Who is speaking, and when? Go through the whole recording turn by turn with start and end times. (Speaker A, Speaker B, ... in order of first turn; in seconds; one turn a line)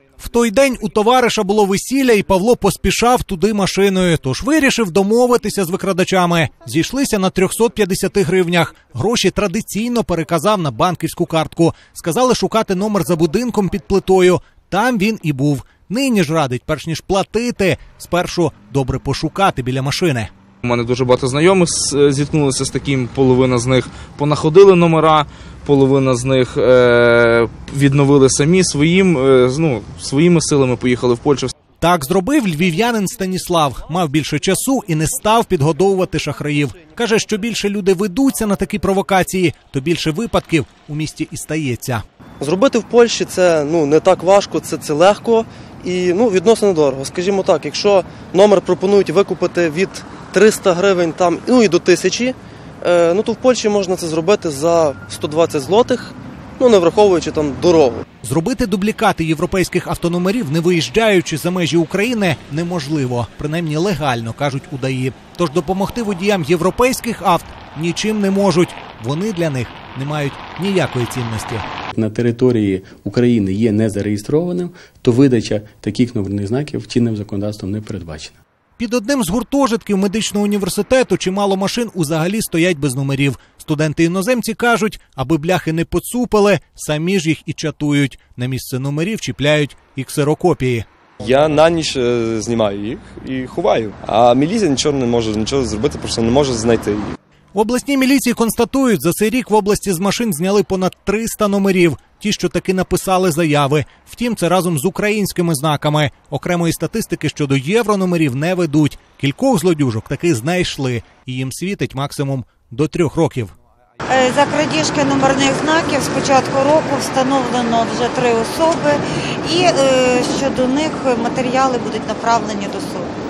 Speaker A: 0.2-20.3
Speaker B: 20.6-31.5
Speaker A: 31.8-42.0
Speaker C: 42.4-58.0
Speaker A: 58.2-71.6
Speaker D: 71.9-78.4
Speaker A: 78.8-90.8
Speaker E: 91.2-97.2
Speaker A: 97.5-113.5
Speaker F: 114.1-123.1